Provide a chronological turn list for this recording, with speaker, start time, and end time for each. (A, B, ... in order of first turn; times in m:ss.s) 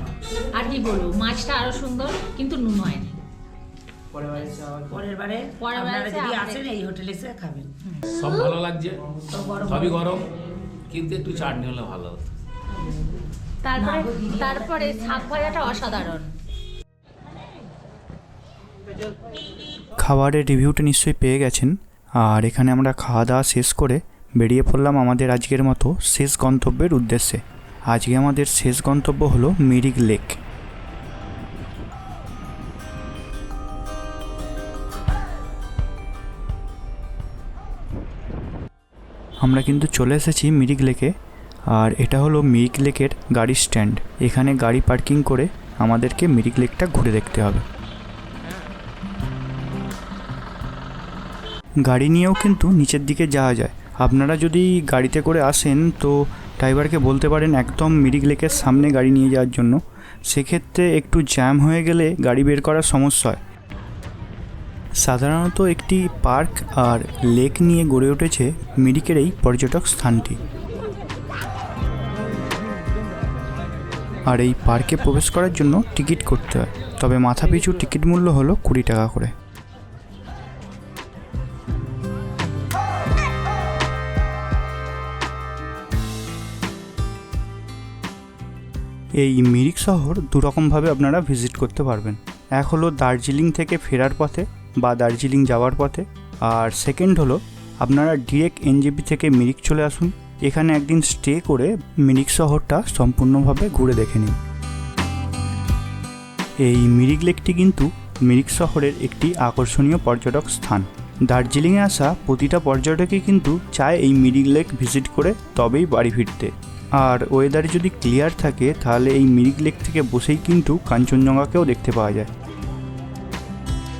0:00.4-0:03.2 A
0:04.3-0:07.8 B
0:05.6-0:06.7 A
0:08.1-0:09.0 C
0:08.2-0:08.6 A
0:09.3-0:10.2 B
0:09.7-0:10.2 C
0:10.9-0:12.3 C
0:13.6-0:16.3 A
0:13.8-0:15.1 B
0:20.0-0:30.4 D
0:39.4-0:41.1 D
0:41.7-0:47.6 D
0:51.8-1:03.4 D
1:05.0-1:10.4 D
1:14.3-1:19.3 D
1:29.2-1:44.4 D
1:46.6-2:02.3 D